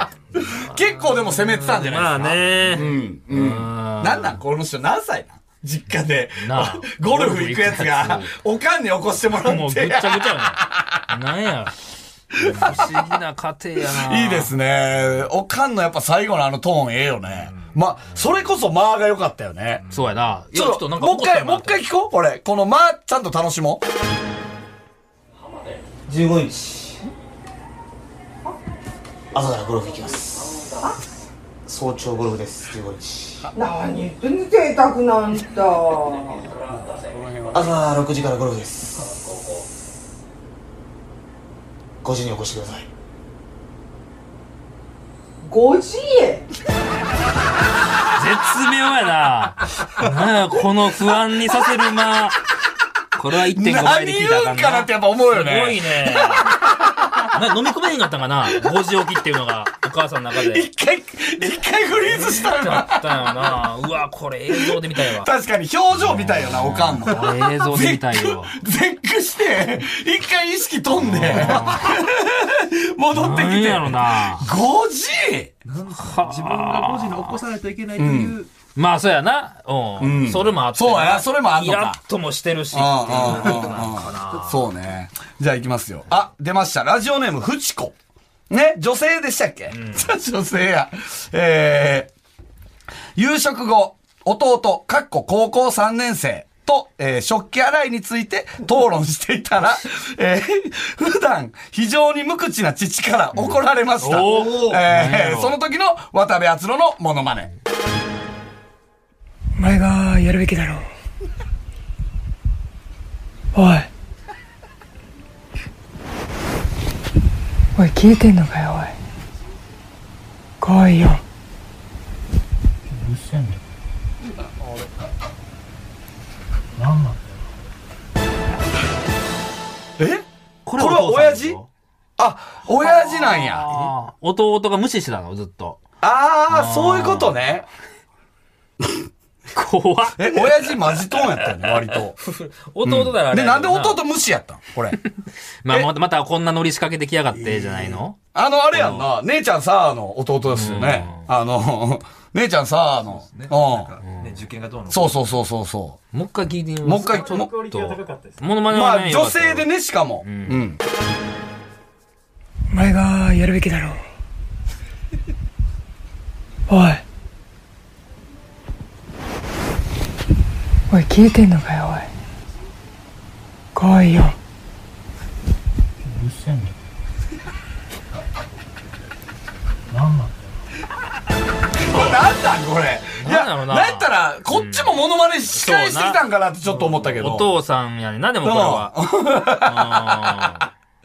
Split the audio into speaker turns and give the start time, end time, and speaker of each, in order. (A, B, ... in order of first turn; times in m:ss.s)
0:00.3-0:04.4 A
0:00.4-0:11.0 B
0:06.4-0:08.3 A
0:09.4-0:11.8 A
0:12.3-0:13.1 B
0:12.4-0:14.5 A
0:13.8-0:19.8 B
0:19.9-0:20.2 C
0:19.9-0:21.8 A
0:20.5-0:23.8 B
0:26.1-0:27.1 D
0:29.3-0:30.8 D
0:31.6-0:33.5 D
0:33.5-0:36.5 E
0:36.7-0:37.8 B
0:37.5-0:39.2 D
0:42.0-0:42.9 D
0:45.4-0:46.5 E
0:48.2-0:52.4 A
0:53.2-0:56.5 A
0:53.4-0:57.3 B
0:57.3-1:00.7 A
1:00.4-1:03.4 B
1:02.0-1:05.3 A
1:04.5-1:15.5 B
1:06.1-1:08.6 A
1:11.0-1:12.0 A
1:13.1-1:14.5 A
1:15.6-1:18.5 C
1:16.0-1:17.3 A
1:18.0-1:18.4 B
1:18.8-1:24.6 A
1:20.0-1:22.0 B
1:22.7-1:28.0 B
1:23.1-1:24.7 C
1:28.5-1:32.1 B
1:29.7-1:30.1 A
1:33.2-1:47.5 B
1:43.4-1:45.6 A
1:49.6-1:50.9 F
1:53.6-1:53.9 F
1:57.8-1:59.0 F
2:00.6-2:01.2 F
2:10.0-2:10.2 B
2:10.7-2:11.7 A
2:10.8-2:11.6 B
2:12.2-2:13.8 B
2:12.8-2:15.8 A
2:16.0-2:17.7 B
2:16.5-2:17.4 A
2:19.5-2:24.0 A
2:20.2-2:22.2 B
2:22.8-2:25.0 B
2:25.6-2:28.2 A
2:27.5-2:27.8 C
2:28.3-2:33.9 B
2:28.7-2:29.1 A
2:30.5-2:31.3 A
2:33.0-2:35.3 C
2:34.9-2:36.0 B
2:36.1-2:39.7 A
2:36.8-2:37.5 B
2:37.3-2:38.3 C
2:38.6-2:40.8 B
2:40.2-2:40.7 A
2:42.7-2:44.0 F
2:46.7-2:47.0 F
2:50.9-2:52.1 F
2:53.8-2:54.4 F
3:01.8-3:07.6 B
3:03.1-3:10.7 A
3:08.4-3:10.7 B